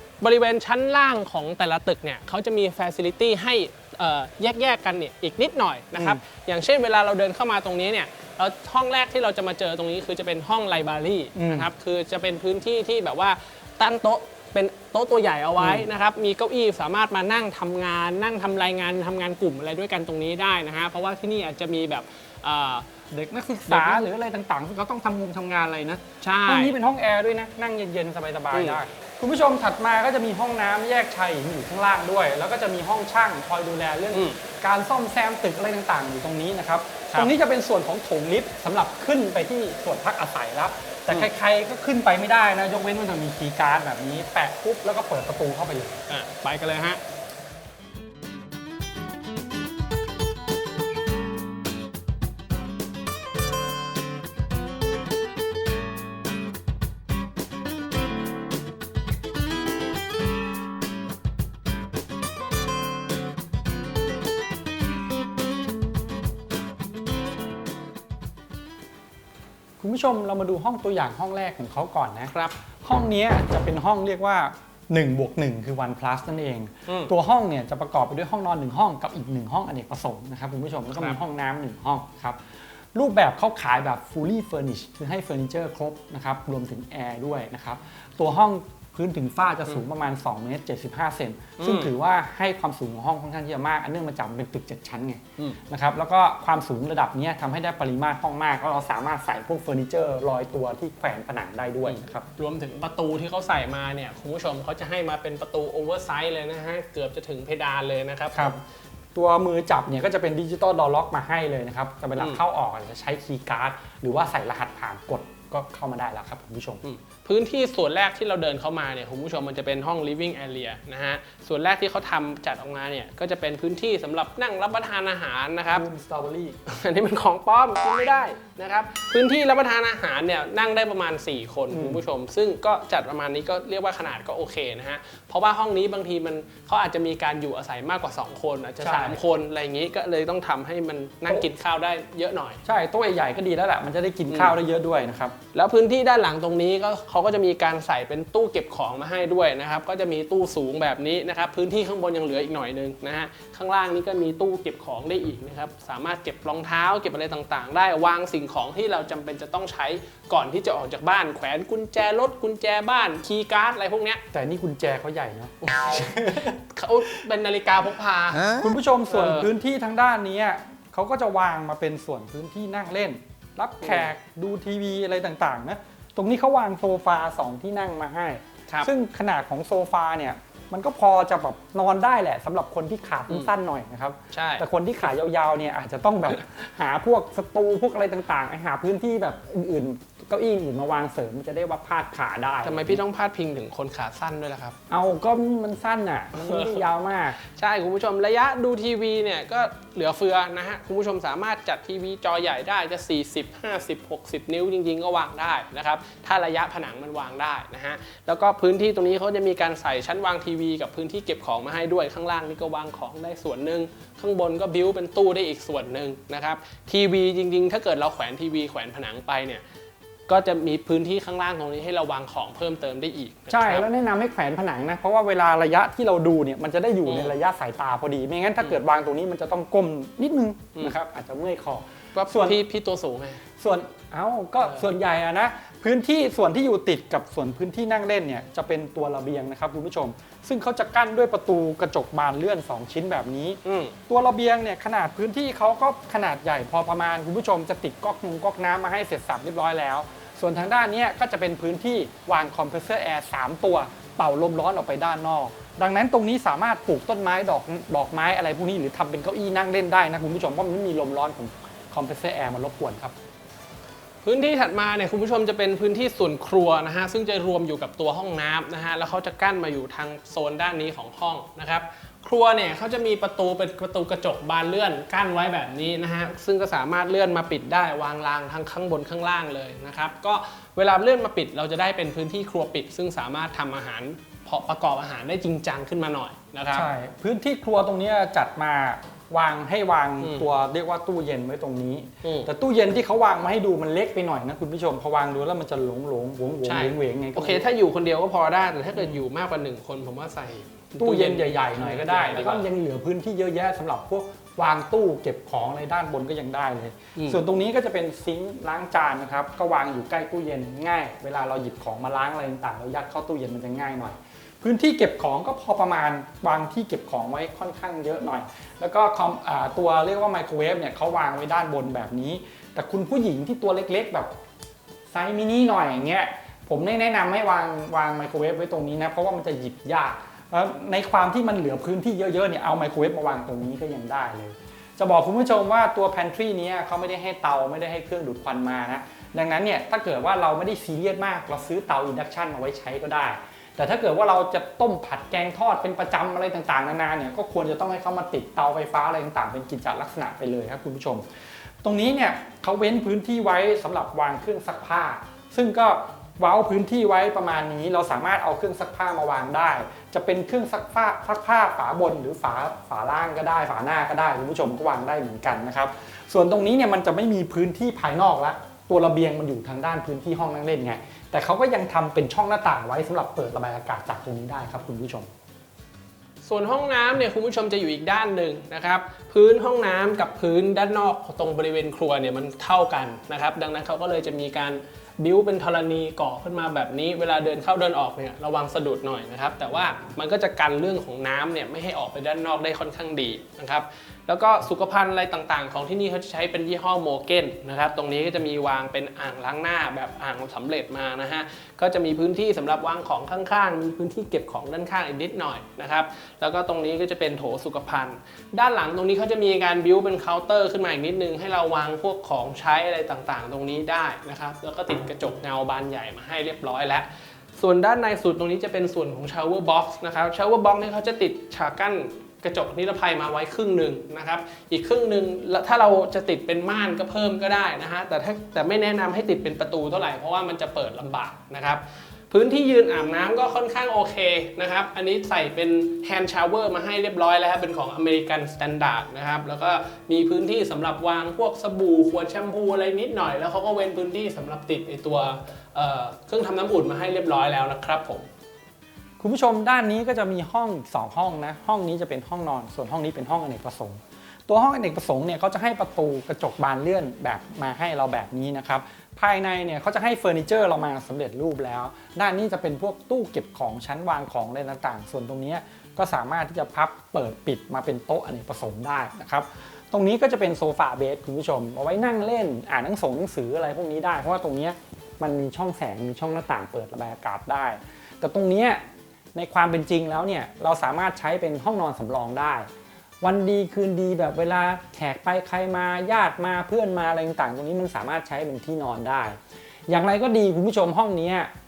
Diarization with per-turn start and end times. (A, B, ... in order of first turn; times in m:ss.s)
0:00.2-0:22.9 A
0:05.9-0:06.2 B
0:11.3-0:11.7 B
0:15.6-0:15.9 B
0:23.1-0:46.0 B
0:23.7-0:24.0 A
0:26.2-0:26.8 A
0:28.5-0:28.8 A
0:46.1-0:47.0 A
1:09.8-1:22.4 B
1:12.3-1:12.6 A
1:16.9-1:17.1 A
1:22.9-1:42.2 B
1:31.6-1:31.9 A
1:41.8-1:48.6 A
1:49.1-1:56.8 B
1:56.8-2:05.8 A
2:05.7-2:06.6 B
2:06.6-2:22.6 A
2:11.7-2:12.0 B
2:18.8-2:19.2 B
2:22.6-2:25.4 B
2:24.3-2:24.6 A
2:25.5-2:44.2 A
2:44.3-2:46.6 B
2:45.7-2:49.5 A
2:48.4-3:13.0 B
3:04.3-3:04.6 A
3:12.6-3:14.8 A
3:14.9-3:17.4 B
3:16.3-3:16.8 A
3:17.4-3:39.6 A
3:40.3-3:43.8 A
3:43.5-3:52.6 B
3:47.0-3:47.3 A
3:52.1-3:53.4 A
3:53.6-4:23.2 B
4:03.6-4:03.9 A
4:24.2-4:46.9 A
4:46.7-4:57.7 B
4:50.2-4:50.5 A
4:52.2-4:52.5 A
4:56.6-5:02.6 A
5:01.0-5:24.3 B
5:07.2-5:07.4 A
5:25.1-5:51.2 B
5:51.8-6:15.3 B
6:16.4-7:28.3 A
7:29.2-7:58.8 B
7:59.3-8:02.7 B
8:03.2-8:09.4 B
8:09.9-8:11.5 B